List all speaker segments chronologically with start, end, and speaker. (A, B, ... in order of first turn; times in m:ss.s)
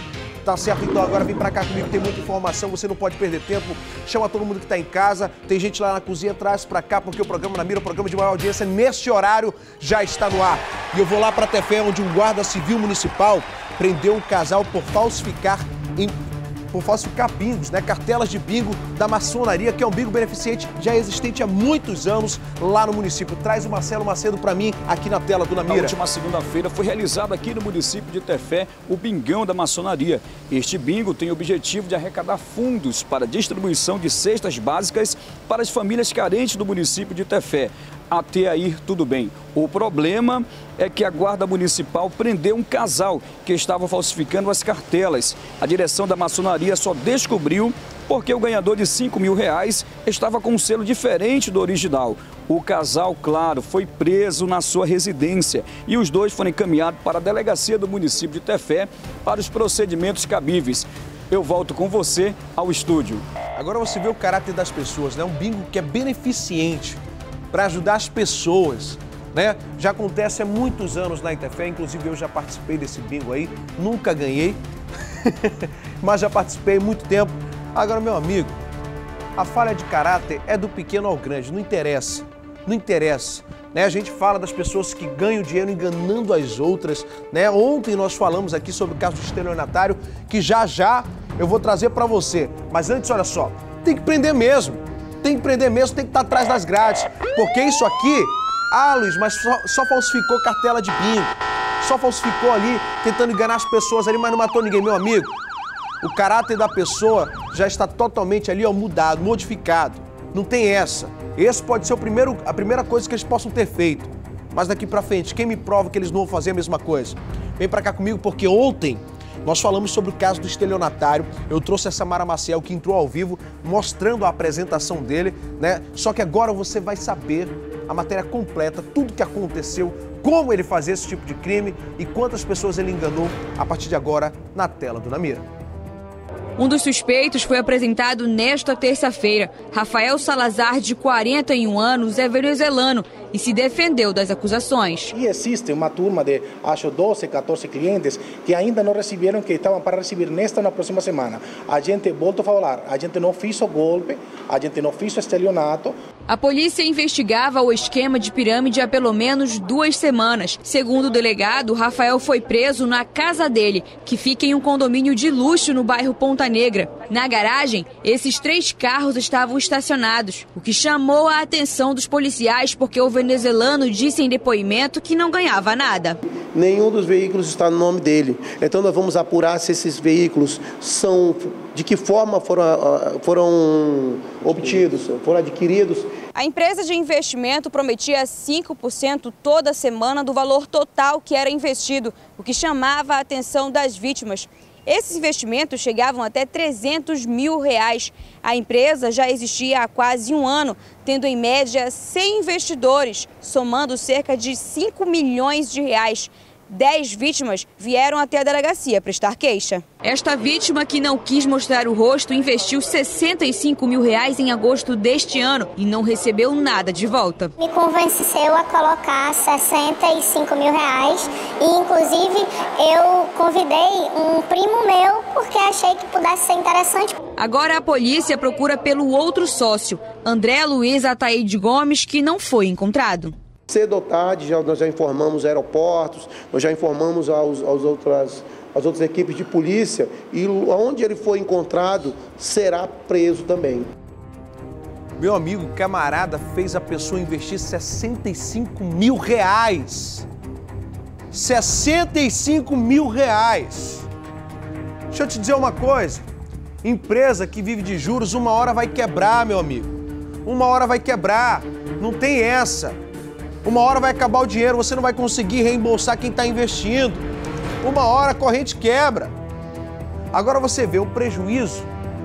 0:00.4-0:16.1 A
0:16.7-0:26.0 A
0:25.8-1:03.2 B
1:03.6-1:14.6 A
1:15.2-1:18.6 A
1:19.4-1:45.3 A
1:46.0-2:15.4 A
2:16.6-2:25.1 C
2:25.2-2:35.9 D
2:36.3-2:56.2 C
2:56.5-3:06.1 E
3:06.3-3:37.5 C
3:37.6-3:47.1 F
3:47.4-3:53.3 C
3:53.7-4:03.9 E
4:05.2-4:10.3 A
4:11.3-4:14.1 A
4:15.1-4:16.2 A
4:16.8-4:23.0 A
4:23.6-4:27.2 A
4:27.8-4:29.3 A
4:30.3-4:31.9 A